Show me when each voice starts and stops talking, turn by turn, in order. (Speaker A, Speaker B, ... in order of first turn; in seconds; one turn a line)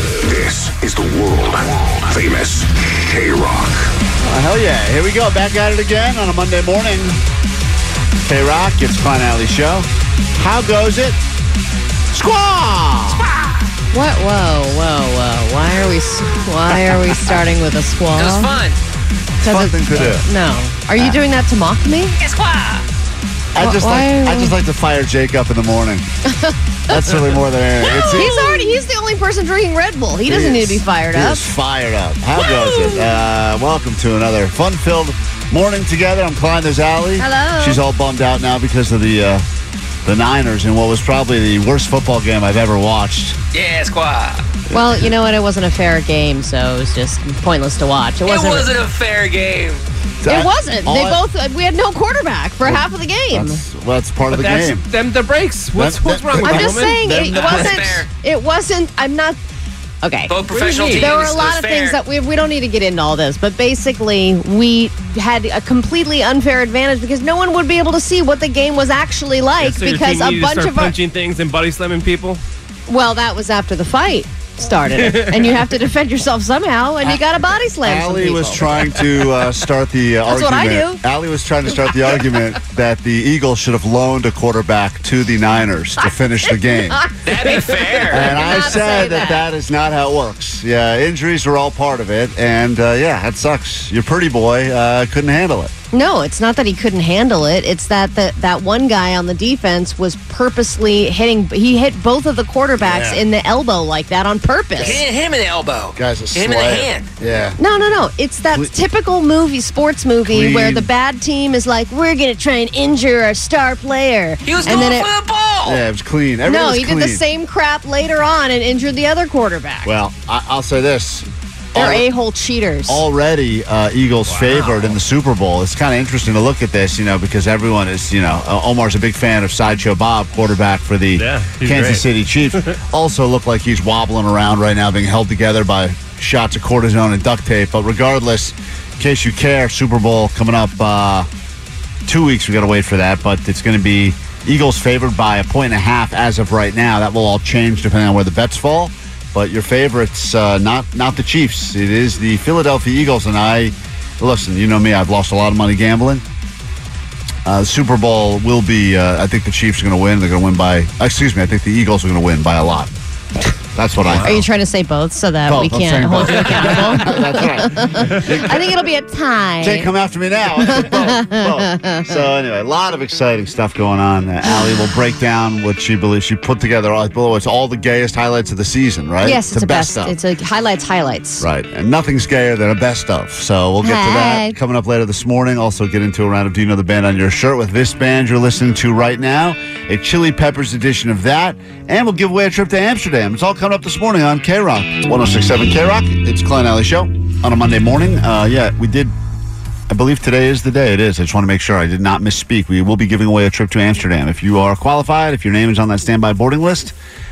Speaker A: 0.2-3.9
Speaker B: 4.2-7.2
Speaker B: 8.2-11.2
Speaker B: 12.1-13.2
Speaker C: 13.1-13.7
Speaker D: 13.9-18.5
Speaker C: 18.1-18.8
Speaker B: 19.4-20.2
Speaker D: 19.4-22.1
Speaker C: 22.1-22.9
Speaker B: 23.6-26.1
Speaker D: 23.6-24.6
Speaker D: 26.3-27.0
Speaker B: 26.9-28.4
Speaker C: 27.9-28.6
Speaker D: 27.9-31.4
Speaker B: 30.3-39.4
Speaker D: 32.4-33.1
Speaker D: 37.2-37.8
Speaker B: 40.0-43.4
Speaker C: 43.5-44.4
Speaker D: 44.7-48.7
Speaker C: 48.2-49.8
Speaker B: 50.2-51.2
Speaker D: 50.3-53.6
Speaker B: 52.6-54.8
Speaker E: 54.3-57.8
Speaker B: 55.8-57.8
Speaker D: 56.4-59.4
Speaker C: 57.3-58.1
Speaker D: 60.0-70.9
Speaker C: 60.3-62.0
Speaker E: 60.7-61.1
Speaker E: 69.6-72.4
Speaker D: 72.9-78.9
Speaker E: 75.0-75.6
Speaker B: 77.8-87.1
Speaker D: 80.3-81.0
Speaker D: 86.5-89.4
Speaker C: 87.3-88.3
Speaker E: 87.4-88.5
Speaker B: 88.1-95.7
Speaker D: 95.9-105.0
Speaker B: 102.8-103.2
Speaker C: 104.8-107.1
Speaker B: 105.9-107.6
Speaker D: 107.6-115.1
Speaker B: 110.2-110.9
Speaker C: 114.4-115.8
Speaker B: 115.6-117.2
Speaker D: 116.5-119.9
Speaker B: 119.8-122.0
Speaker D: 121.7-123.0
Speaker B: 122.9-141.3
Speaker E: 124.3-125.0
Speaker E: 131.2-132.0
Speaker B: 142.1-156.2
Speaker B: 157.4-162.9
Speaker B: 163.7-164.4
Speaker E: 164.0-164.4
Speaker D: 164.2-169.9
Speaker B: 165.5-168.6
Speaker B: 169.6-180.1
Speaker D: 170.7-172.1
Speaker D: 179.2-181.4
Speaker B: 181.4-199.1
Speaker D: 183.8-184.6
Speaker B: 199.9-206.9